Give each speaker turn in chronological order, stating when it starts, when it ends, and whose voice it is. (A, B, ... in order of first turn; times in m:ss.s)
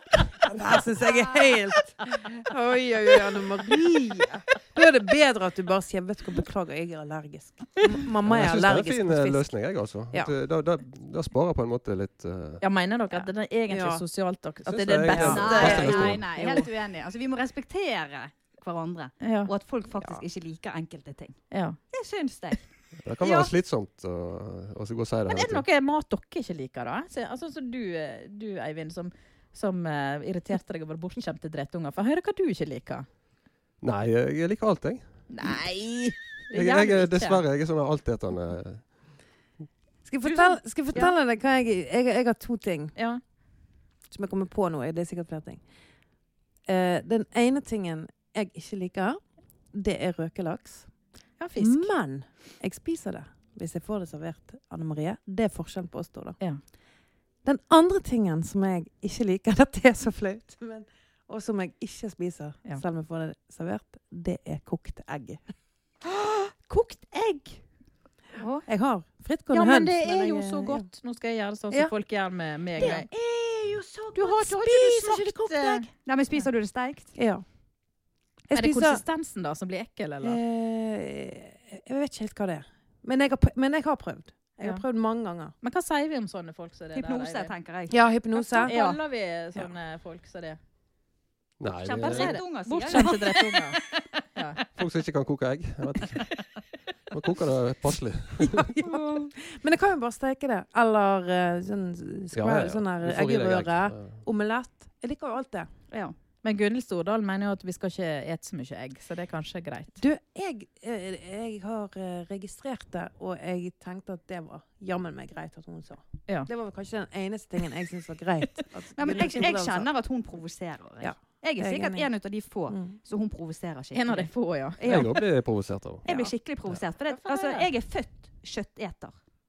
0:00.4-0:09.5 A
0:08.2-0:12.6 B
0:12.6-0:16.7 C
0:13.1-0:14.0 A
0:14.6-0:16.2 B
0:15.1-0:16.6 A
0:15.1-0:23.5 D
0:19.2-0:19.5 C
0:20.0-0:20.2 A
0:21.5-0:21.8 C
0:23.0-0:25.6 B
0:25.3-0:33.1 C
0:33.8-0:35.1 B
0:35.3-0:37.4 C
0:36.5-0:39.1 B
0:40.0-0:43.0 A
0:40.2-0:41.1 C
0:44.1-0:45.6 A
0:46.6-0:49.2 A
0:49.7-0:50.9 A
0:51.4-0:51.9 C
0:51.6-0:56.4 A
0:57.4-1:05.4 A
1:06.0-1:07.6 C
1:08.4-1:08.6 D
1:08.6-1:10.9 A
1:09.5-1:13.1 C
1:12.8-1:15.9 A
1:12.8-1:13.0 D
1:14.1-1:15.9 C
1:16.0-1:17.1 D
1:17.2-1:17.4 A
1:18.5-1:19.0 A
1:18.5-1:20.4 C
1:20.2-1:25.5 A
1:25.6-1:27.5 C
1:26.9-1:28.0 D
1:27.9-1:28.8 A
1:28.5-1:29.0 D
1:28.5-1:30.6 C
1:31.6-1:32.4 B
1:31.7-1:34.1 D
1:32.0-1:33.8 C
1:34.3-1:34.6 C
1:34.7-1:36.4 B
1:37.1-1:38.7 B
1:38.5-1:45.7 A
1:38.8-1:39.3 D
1:42.3-1:44.2 B
1:46.4-1:50.0 C
1:50.0-1:59.9 A
1:59.0-2:05.2 D
2:01.0-2:02.1 A
2:03.9-2:04.8 C
2:04.8-2:06.0 B
2:06.0-2:09.1 D
2:07.1-2:07.7 C